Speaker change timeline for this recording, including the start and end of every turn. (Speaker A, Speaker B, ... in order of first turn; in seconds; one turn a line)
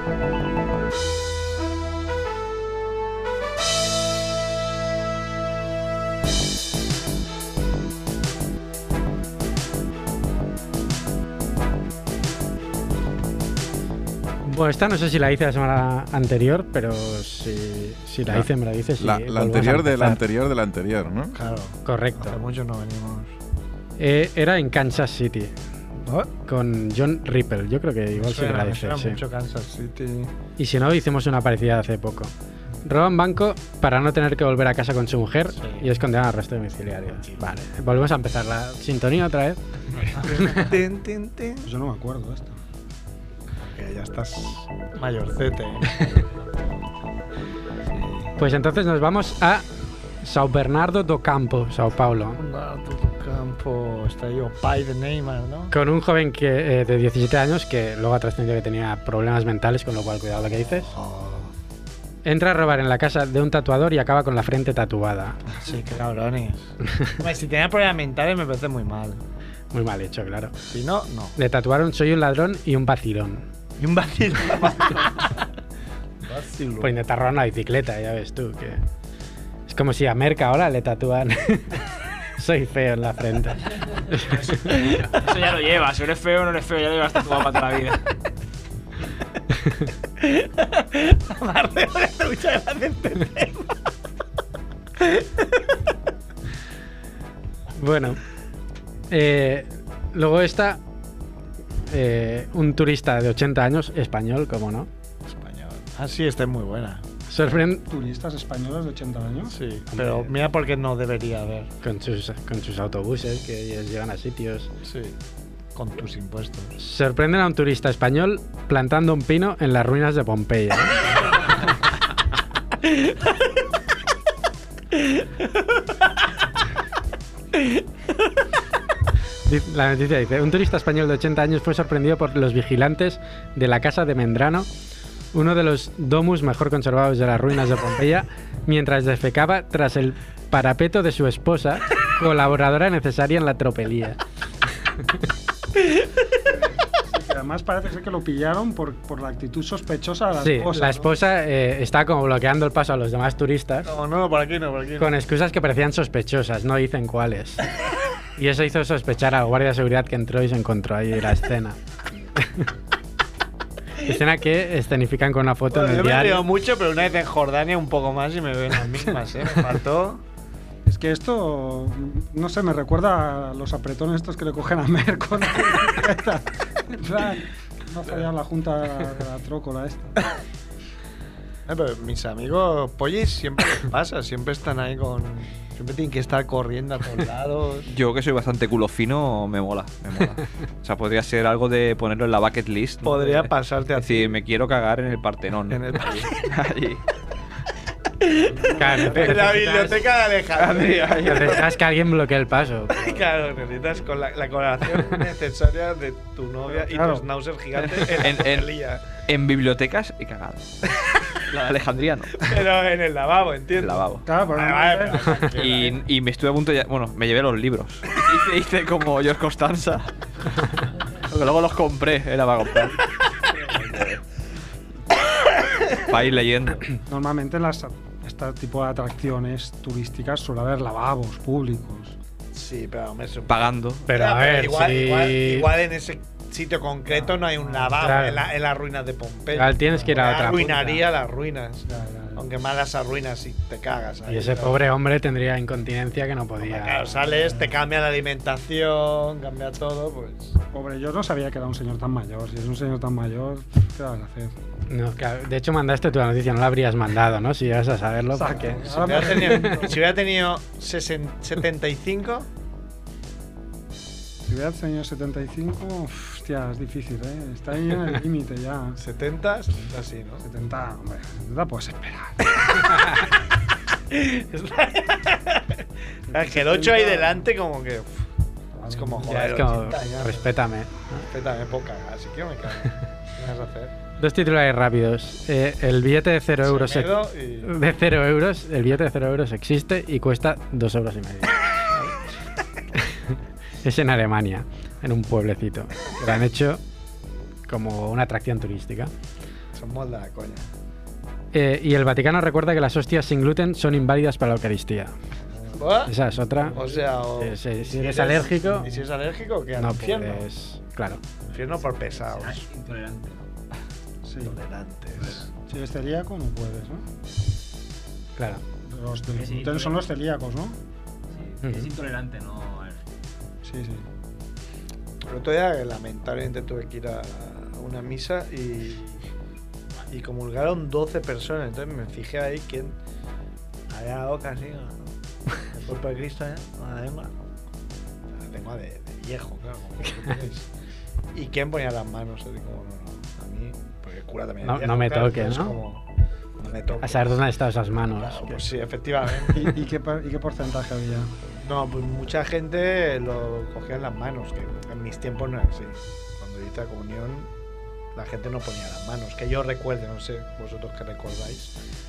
Speaker A: 14.4-20.2
Speaker B: 18.3-21.4
Speaker C: 21.3-23.3
Speaker A: 21.8-22.3
Speaker A: 24.0-25.6
Speaker C: 26.0-26.3
Speaker A: 26.4-29.2
Speaker C: 28.1-30.3
Speaker A: 30.6-32.3
Speaker A: 32.8-39.6
Speaker C: 35.5-35.9
Speaker C: 37.0-37.6
Speaker C: 40.1-41.7
Speaker D: 41.6-42.6
Speaker C: 43.6-46.1
Speaker C: 47.9-48.3
Speaker A: 48.4-49.6
Speaker A: 50.2-52.4
Speaker C: 52.3-55.7
Speaker A: 55.7-60.9
Speaker C: 60.8-61.5
Speaker A: 62.2-65.4
Speaker C: 65.6-69.2
Speaker A: 69.7-70.5
Speaker C: 70.6-71.3
Speaker A: 71.3-73.5
Speaker C: 73.8-75.4
Speaker C: 76.2-76.9
Speaker A: 76.8-78.8
Speaker A: 79.7-84.8
Speaker E: 84.5-88.0
Speaker C: 90.2-93.7
Speaker C: 95.0-95.5
Speaker A: 97.8-98.2
Speaker A: 99.1-100.8
Speaker A: 101.9-104.9
Speaker C: 105.3-107.0
Speaker A: 107.3-107.8
Speaker D: 107.8-109.5
Speaker C: 109.5-111.7
Speaker A: 109.9-110.3
Speaker A: 111.8-114.7
Speaker C: 114.8-115.1
Speaker C: 115.7-116.8
Speaker A: 116.8-121.1
Speaker A: 129.4-134.7
Speaker A: 135.3-144.2
Speaker D: 146.4-151.1
Speaker A: 150.4-153.9
Speaker C: 153.8-155.1
Speaker A: 155.0-157.6
Speaker A: 158.3-161.8
Speaker A: 162.4-162.7
Speaker A: 164.0-166.4
Speaker C: 165.7-170.2
Speaker D: 170.8-180.2
Speaker C: 181.7-187.8
Speaker F: 187.9-197.0
Speaker C: 193.0-194.4
Speaker C: 195.7-196.5
Speaker C: 198.6-201.6
Speaker A: 198.7-200.0
Speaker F: 199.1-199.4
Speaker F: 200.5-201.6
Speaker A: 201.2-203.2
Speaker C: 202.9-209.1
Speaker D: 206.7-207.2
Speaker F: 208.0-208.7
Speaker F: 209.2-210.7
Speaker F: 211.5-212.3
Speaker C: 212.4-216.0
Speaker F: 213.8-214.2
Speaker D: 214.2-215.4
Speaker F: 215.5-220.1
Speaker F: 221.2-223.0
Speaker F: 226.0-226.8
Speaker D: 227.0-232.2
Speaker C: 232.5-244.8
Speaker F: 233.5-234.0
Speaker A: 234.1-235.7
Speaker D: 237.1-238.0
Speaker A: 238.0-238.4
Speaker A: 239.5-241.0
Speaker D: 241.9-242.5
Speaker A: 244.3-247.1
Speaker C: 246.6-250.6
Speaker D: 247.2-247.9
Speaker D: 250.7-254.5
Speaker A: 254.9-259.7
Speaker D: 258.3-259.9
Speaker C: 258.9-262.5
Speaker D: 264.4-269.0
Speaker C: 269.0-270.4
Speaker D: 270.4-272.5
Speaker C: 274.1-278.2
Speaker D: 276.4-277.4
Speaker D: 278.8-279.4
Speaker C: 278.8-280.5
Speaker A: 279.2-281.2
Speaker C: 281.3-283.9
Speaker A: 284.2-287.1
Speaker C: 286.6-287.7
Speaker A: 287.6-291.6
Speaker A: 293.8-296.8
Speaker A: 297.7-299.1
Speaker C: 299.7-300.7
Speaker A: 301.5-305.1
Speaker C: 305.7-310.4
Speaker A: 306.1-309.0
Speaker A: 309.8-311.2
Speaker E: 311.5-313.5
Speaker C: 311.5-312.6
Speaker D: 314.2-314.6
Speaker C: 314.4-315.4
Speaker E: 315.2-315.5
Speaker D: 315.6-317.1
Speaker A: 318.4-318.6
Speaker D: 318.8-320.8
Speaker E: 319.3-320.1
Speaker E: 321.3-323.0
Speaker A: 321.6-321.9
Speaker D: 323.6-324.1
Speaker C: 325.3-329.2
Speaker C: 330.1-332.9
Speaker C: 333.9-337.3
Speaker C: 338.3-340.7
Speaker C: 341.3-346.0
Speaker A: 344.6-345.8
Speaker C: 346.6-347.5
Speaker A: 347.0-348.6
Speaker C: 348.1-349.8
Speaker D: 349.5-351.4
Speaker C: 351.5-357.5
Speaker C: 358.1-361.7